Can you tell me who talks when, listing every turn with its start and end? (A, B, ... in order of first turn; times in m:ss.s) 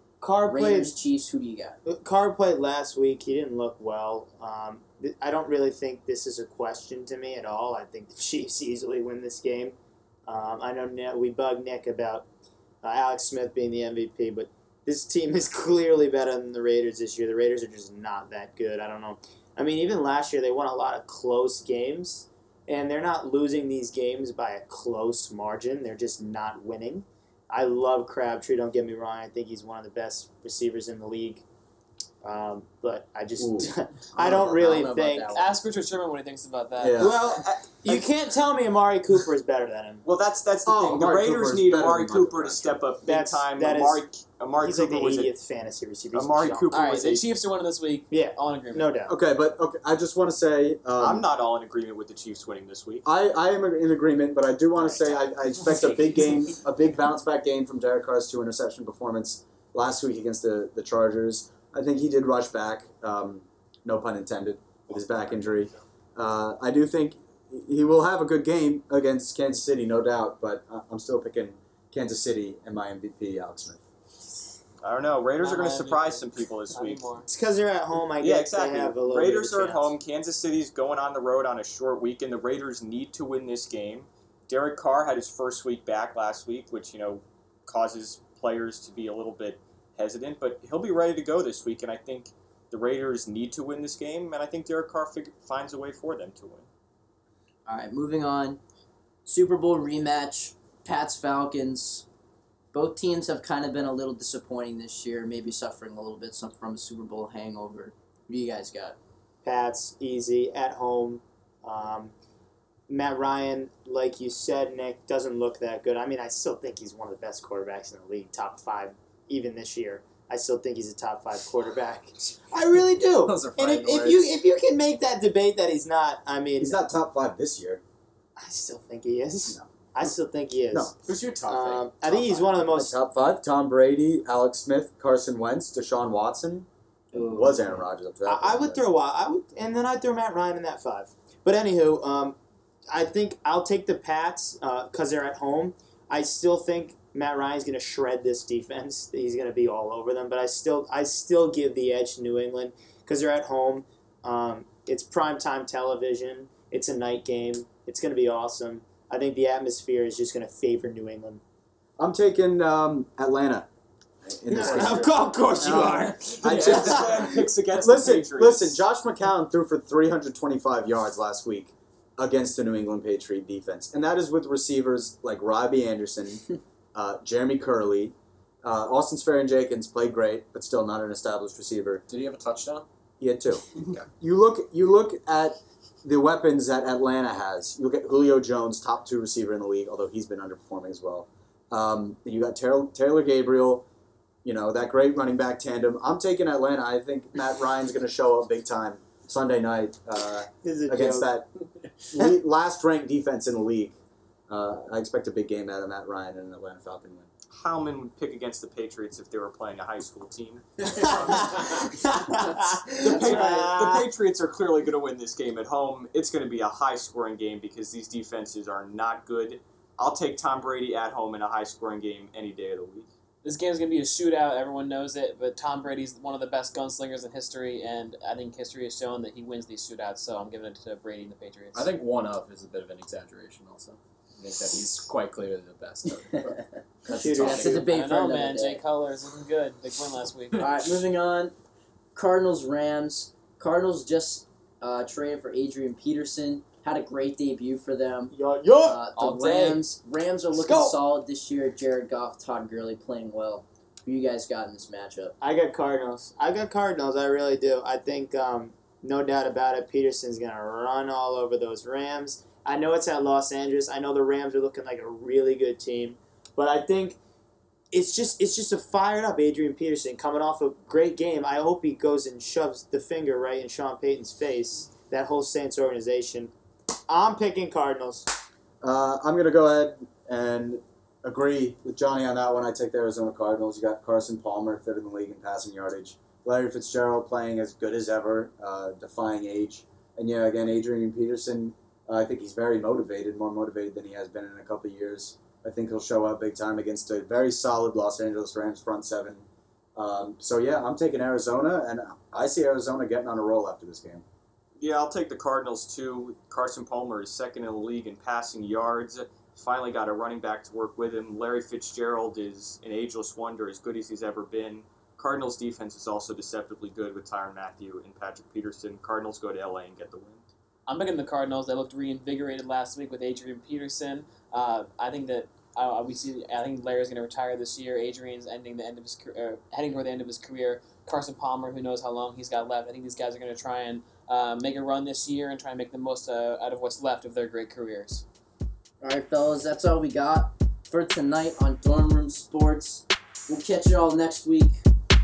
0:00.2-0:01.0 A
0:00.4-0:01.8 B
0:01.8-0:09.8 A
0:10.3-0:12.2 A
0:12.8-0:31.4 A
0:32.2-0:35.4 A
0:33.4-0:34.4 C
0:34.2-0:35.5 B
0:35.3-0:37.1 D
0:36.8-0:37.2 C
0:37.0-0:40.0 A
0:37.3-0:38.1 E
0:40.0-0:45.3 E
0:40.6-0:42.8 C
0:43.0-0:44.0 A
0:44.6-0:46.7 A
0:46.1-0:47.2 E
0:46.7-0:48.9 D
0:48.1-0:49.1 A
0:49.1-0:51.2 C
0:51.0-0:53.0 E
0:53.0-1:13.8 C
1:14.8-1:17.1 E
1:15.4-1:17.3 D
1:17.3-1:19.9 A
1:18.2-1:36.7 E
1:37.7-1:38.6 B
1:39.2-1:42.0 B
1:42.7-1:49.0 B
1:49.4-1:52.1 A
1:52.9-2:06.8 A
2:03.2-2:04.2 F
2:06.6-2:07.8 C
2:08.4-2:10.9 A
2:09.5-2:10.1 C
2:11.0-2:11.9 F
2:11.4-2:12.9 A
2:12.0-2:18.8 C
2:18.2-2:22.4 A
2:22.9-2:41.4 A
2:42.0-2:43.7 C
2:44.2-2:45.8 C
2:44.5-2:47.4 A
2:44.6-2:45.0 F
2:45.6-2:47.0 F
2:46.4-3:02.0 C
2:46.6-2:48.8 E
3:02.1-3:02.8 F
3:03.2-3:13.8 C
3:03.8-3:04.1 F
3:14.4-3:21.5 C
3:20.6-3:21.3 A
3:22.1-3:24.0 C
3:24.5-3:27.3 C
3:27.5-3:31.5 E
3:30.9-3:31.8 F
3:31.0-3:34.1 A
3:33.0-3:43.1 E
3:43.4-3:51.9 D
3:51.7-3:57.8 F
3:56.2-3:58.8 B
3:57.1-3:57.9 A
3:57.8-4:00.6 D
4:00.6-4:01.5 B
4:02.1-4:15.3 B
4:08.3-4:09.0 A
4:09.1-4:09.8 D
4:10.5-4:11.0 A
4:15.4-4:27.2 A
4:27.9-4:36.5 A
4:37.1-4:38.3 A
4:38.8-4:59.4 C
5:00.0-5:04.2 C
5:04.8-5:20.4 E
5:20.9-5:38.2 D
5:39.0-5:44.8 B